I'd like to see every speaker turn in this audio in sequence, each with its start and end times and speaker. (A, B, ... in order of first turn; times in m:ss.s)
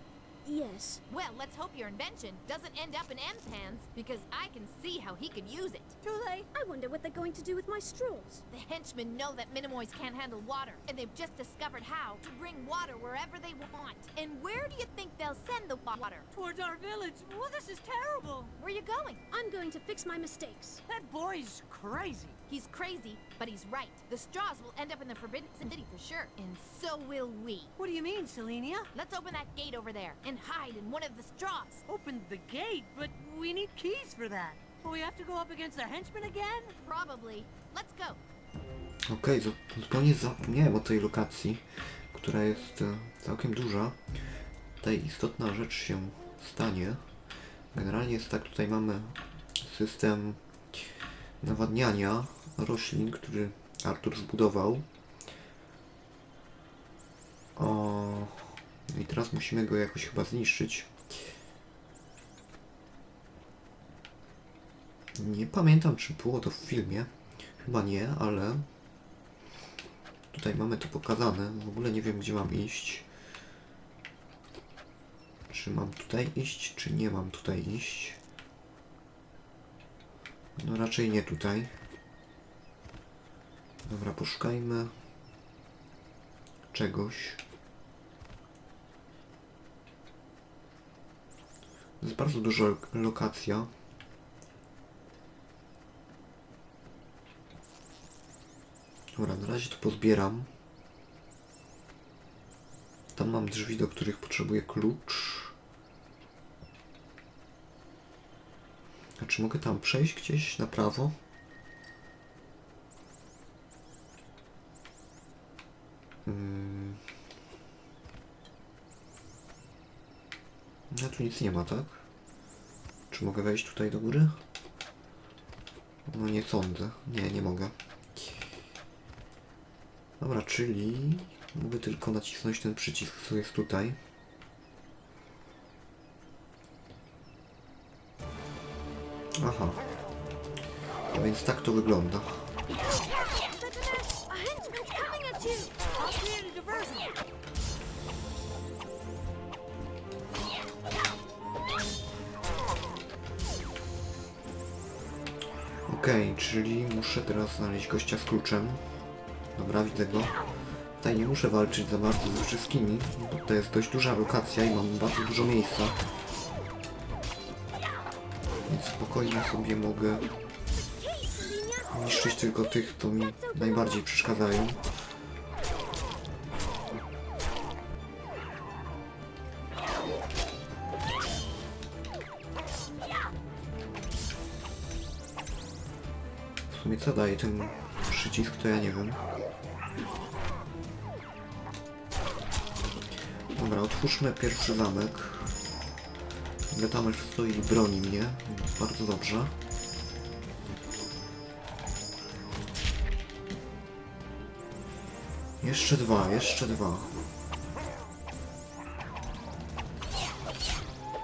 0:00.4-0:01.0 A
0:01.1-0:06.0 B
0:06.0-0:06.5 C
0:06.5-0:08.4 A
0:08.5-0:16.3 B
0:16.3-0:18.5 C
0:18.6-0:19.2 B
0:19.3-0:20.8 A
0:20.9-0:22.4 C
0:22.5-0:27.7 B
0:27.8-0:28.9 C
0:28.9-0:31.8 B
0:31.9-0:36.7 C
0:36.8-0:38.2 B
0:39.1-0:44.0 D
0:44.8-0:47.0 D
0:47.7-0:50.4 D
0:51.4-0:54.8 D
0:57.6-1:00.9 D
1:05.2-1:07.1 D
1:07.6-1:08.6 D
1:10.3-1:13.1 D
1:15.5-1:18.2 D
1:20.6-1:21.8 D
1:23.8-1:24.9 D
1:26.7-1:27.4 D
1:32.0-1:33.7 D
1:39.1-1:40.5 D
1:43.1-1:45.5 D
1:49.2-1:51.1 D
1:56.2-1:57.0 D
2:00.9-2:02.0 D
2:03.1-2:04.4 D
2:06.1-2:08.4 D
2:10.2-2:14.0 D
2:19.4-2:19.8 D
2:21.1-2:22.5 D
2:23.5-2:25.8 A
2:25.9-2:27.1 C
2:35.9-2:38.8 D
2:39.5-2:40.4 D
2:41.0-2:46.0 D
2:48.7-2:50.3 D
2:50.7-2:54.0 A
2:51.9-2:54.8 D
3:06.7-3:09.2 D
3:13.5-3:15.6 D
3:16.7-3:19.5 D
3:25.6-3:27.3 D